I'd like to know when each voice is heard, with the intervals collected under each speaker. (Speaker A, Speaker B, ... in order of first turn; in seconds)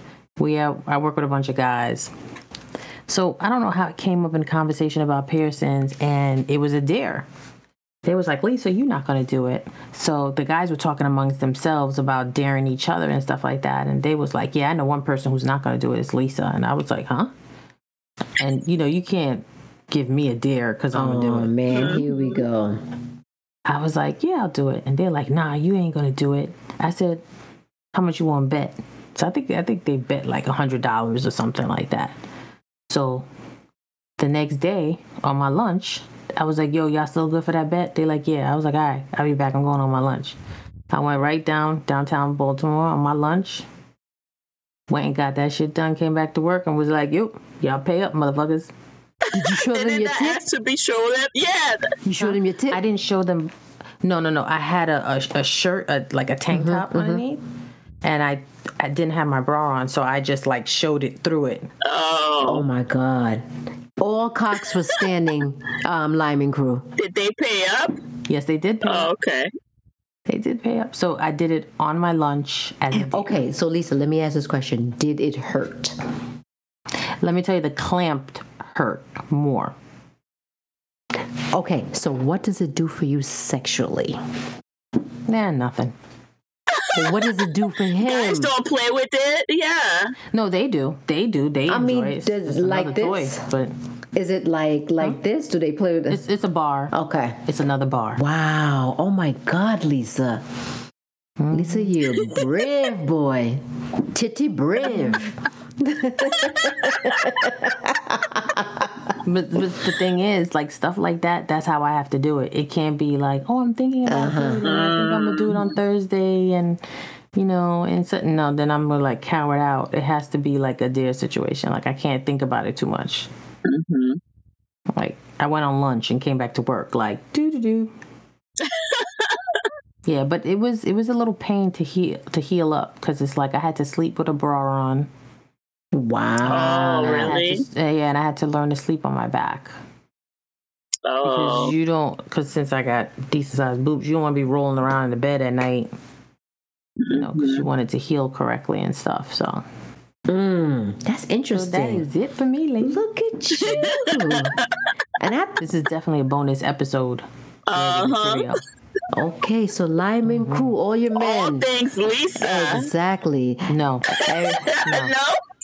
Speaker A: 0.4-2.1, 3.1-7.3, 8.0-17.3, 18.4-21.5, 23.6-27.2, 27.9-32.1, 32.9-33.3, 34.2-40.4, 40.9-43.6, 44.9-48.7, 52.2-57.4, 58.0-61.7, 68.3-69.1, 70.3-73.4, 77.2-79.7, 85.3-85.9, 90.3-93.7, 96.1-96.9, 97.4-98.2, 101.4-102.0, 104.9-105.1, 109.2-116.8, 117.3-123.3, 124.9-127.9, 130.1-135.1, 136.5-139.7, 141.2-145.9, 147.1-149.7, 151.5-153.0, 155.6-158.6, 160.2-160.7, 163.7-165.1
Speaker B: 20.9-22.8, 49.3-50.4, 52.0-52.8, 56.5-57.2, 62.4-63.4, 64.0-66.9, 72.9-76.0, 81.5-84.2, 86.9-88.5, 91.7-93.4, 94.1-96.2, 96.9-97.4, 98.2-100.4, 101.5-109.1, 114.1-114.6, 135.9-137.4, 150.3-152.1, 152.8-154.6, 155.2-155.6, 159.1-161.7, 162.4-164.8
Speaker C: 21.7-22.3, 49.3-51.9, 61.8-62.6, 67.0-68.0, 68.8-69.5, 86.7-90.1, 114.6-115.7, 123.6-124.2, 128.6-129.6, 136.5-137.6, 141.0-141.7, 147.0-147.7, 153.6-154.6, 157.7-158.5, 161.1-162.9, 164.3-165.4